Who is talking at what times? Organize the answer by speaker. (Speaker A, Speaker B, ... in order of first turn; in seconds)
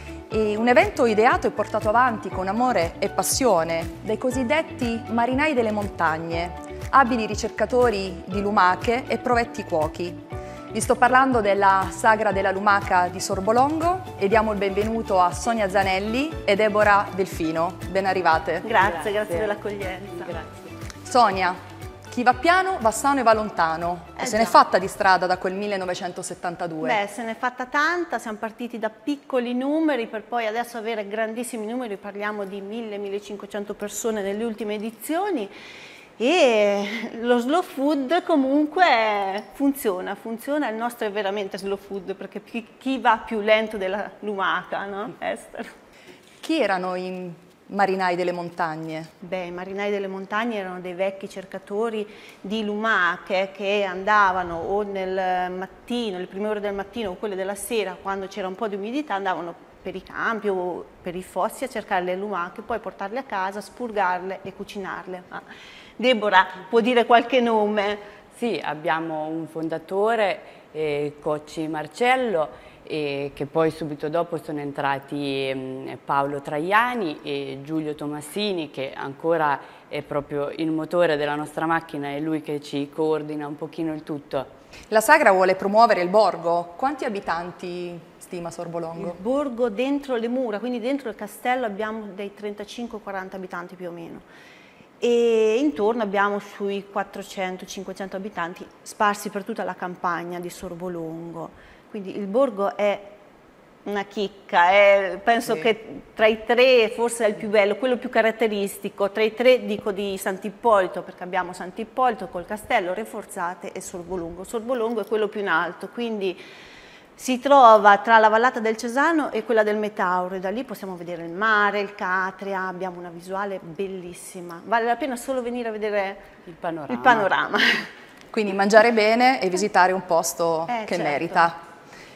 Speaker A: 0.3-18.7, 21.1-21.6, 22.1-27.0, 46.4-49.1, 84.9-89.2, 128.3-131.6
Speaker B: 18.6-20.3, 24.2-24.6, 26.8-35.5, 36.2-45.7, 49.2-65.4, 66.0-68.0, 89.0-94.2, 95.0-103.1, 103.8-116.4, 117.2-126.3, 126.9-127.9, 130.7-131.5
Speaker C: 18.8-20.7, 68.3-84.5, 126.5-127.3